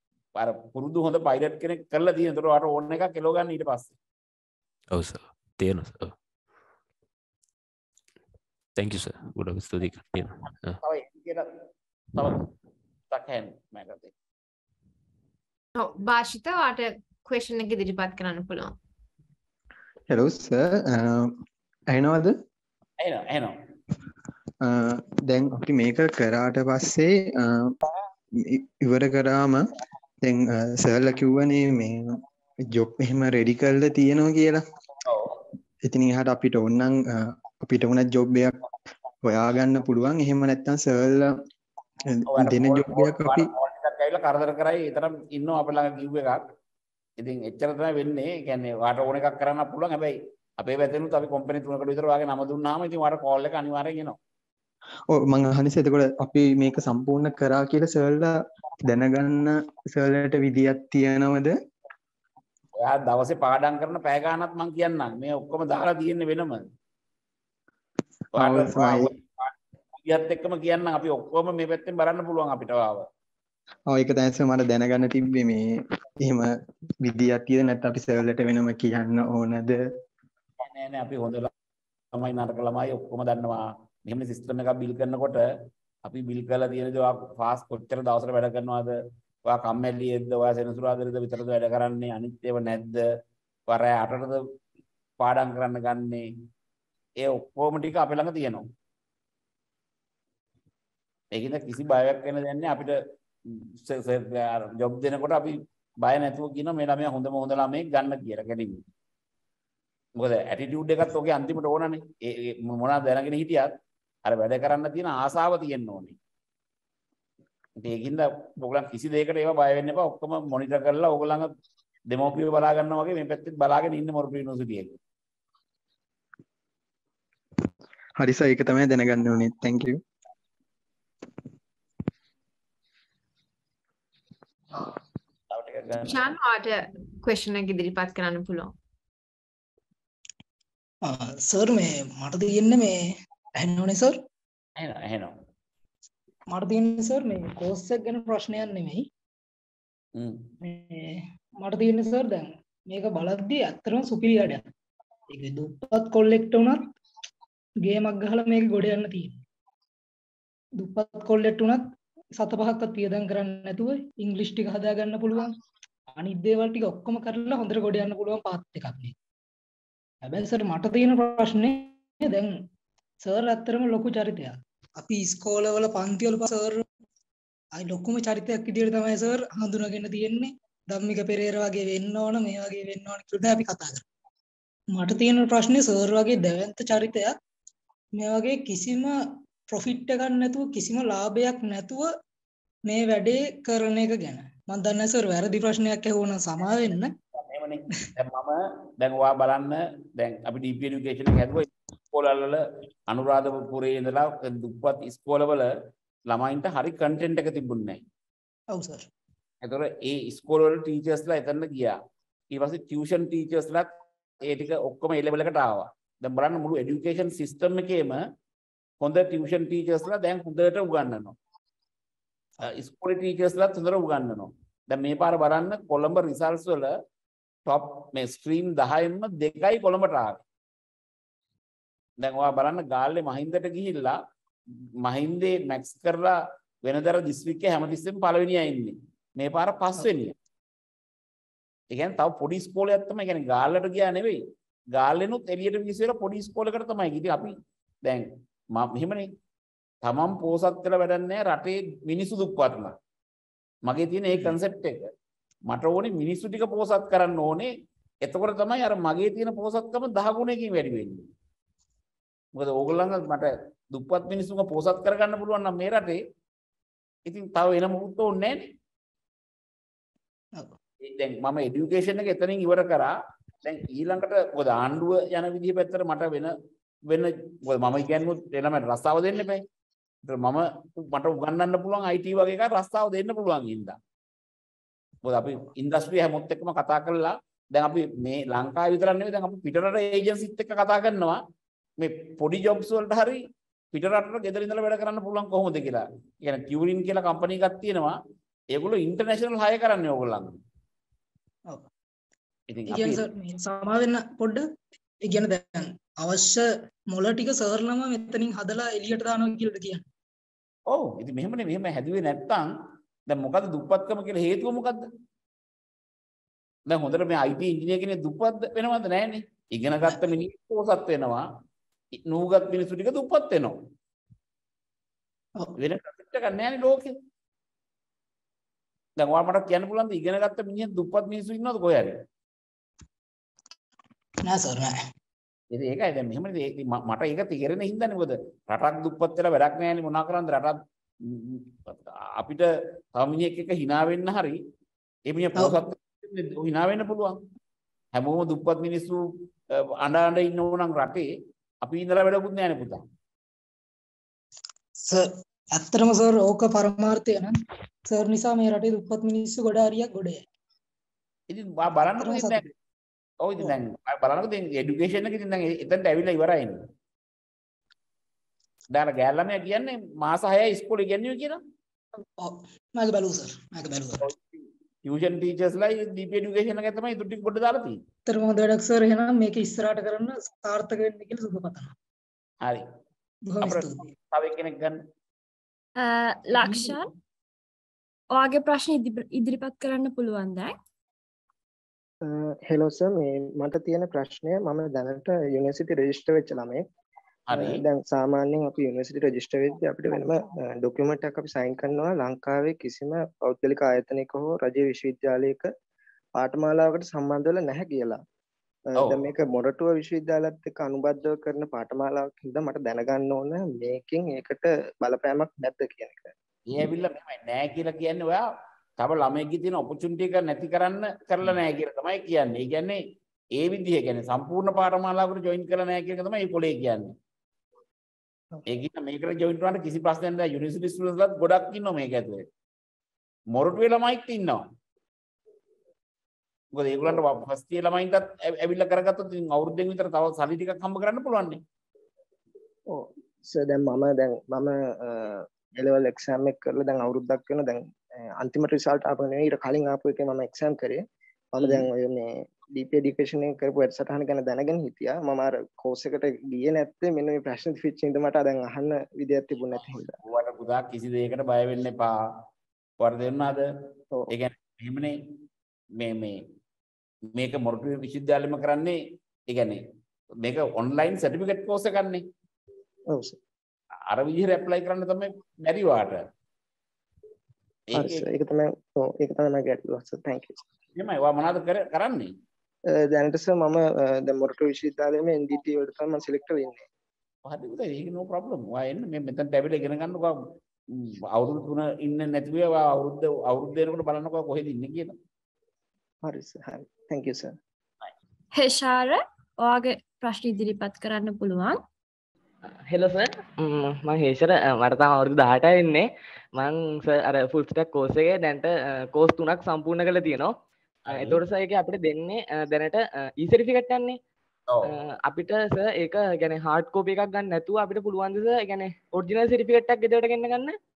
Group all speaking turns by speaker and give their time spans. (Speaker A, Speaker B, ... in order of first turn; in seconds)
Speaker A: 0.4-3.9, 10.8-11.5, 12.2-12.4, 13.1-14.1, 23.0-23.6, 35.0-35.3, 42.3-46.4, 47.2-54.2, 62.8-66.6, 68.3-73.0, 80.6-81.5, 82.1-85.4, 86.0-93.1, 93.7-94.4, 95.2-96.3, 97.2-98.7, 101.3-108.8, 110.2-113.7, 114.2-116.2, 117.8-121.5, 122.1-125.0, 135.5-136.3, 144.8-145.4, 150.1-150.5, 197.3-205.7, 206.3-208.0, 209.6-212.0, 212.5-218.2, 219.0-221.3, 222.6-226.9, 227.7-230.4, 232.2-234.2, 235.0-240.4, 241.9-244.4, 244.9-249.3, 250.0-252.9, 253.9-255.1, 255.7-257.7, 258.2-261.3, 262.6-266.2, 267.2-268.6, 271.0-273.1, 273.6-276.5, 277.1-279.6, 280.2-284.0, 285.2-291.4, 292.0-298.2, 298.7-300.6, 302.7-303.2, 310.9-312.7, 313.3-315.1, 316.9-321.4, 322.1-323.8, 325.8-327.1, 329.2-332.2, 335.7-344.6, 345.3-347.4, 348.1-351.3, 351.8-353.0, 361.5-362.6, 363.4-366.8, 368.9-371.6, 374.2-378.0, 383.6-385.0, 397.5-397.8, 416.7-418.4, 419.0-423.0, 423.6-427.1, 428.6-432.4, 433.5-434.6, 436.7-441.6, 459.8-462.1, 463.0-463.7, 464.3-465.1, 466.0-466.4, 467.3-469.8, 470.4-472.2, 474.1-476.2, 477.9-478.3, 480.9-482.3, 487.4-490.3, 490.9-495.1
Speaker B: 4.9-6.1, 8.8-10.8
Speaker C: 15.8-18.7, 136.0-138.7
Speaker D: 20.1-21.3, 21.9-22.3, 24.6-27.7, 28.4-29.7, 30.2-34.6, 35.9-38.6, 39.2-41.3, 42.1-43.5, 55.1-58.3, 58.9-61.5, 68.4-69.1, 73.9-75.6, 76.2-76.5, 77.0-79.8, 128.2-130.0
Speaker E: 141.0-144.2, 146.5-149.1, 150.6-154.6, 155.3-156.9, 157.8-159.3, 160.8-161.8, 162.4-165.5, 166.2-169.1, 170.2-172.6, 173.2-176.8, 177.7-184.0, 184.9-187.4, 188.2-192.1, 192.9-197.1, 208.7-209.1, 302.9-310.0, 334.4-334.9, 355.0-357.6, 358.1-360.4, 362.2-362.7, 372.4-374.2, 378.3-381.9, 383.5-384.1
Speaker F: 386.0-387.1, 388.3-390.7, 498.5-501.8
Speaker G: 392.2-396.8, 397.5-405.7, 406.4-408.2, 408.9-416.3, 442.9-460.2, 473.1-473.4, 477.9-480.6, 483.1-486.8, 496.2-497.6
Speaker H: 502.9-510.5, 511.1-514.2, 515.0-520.8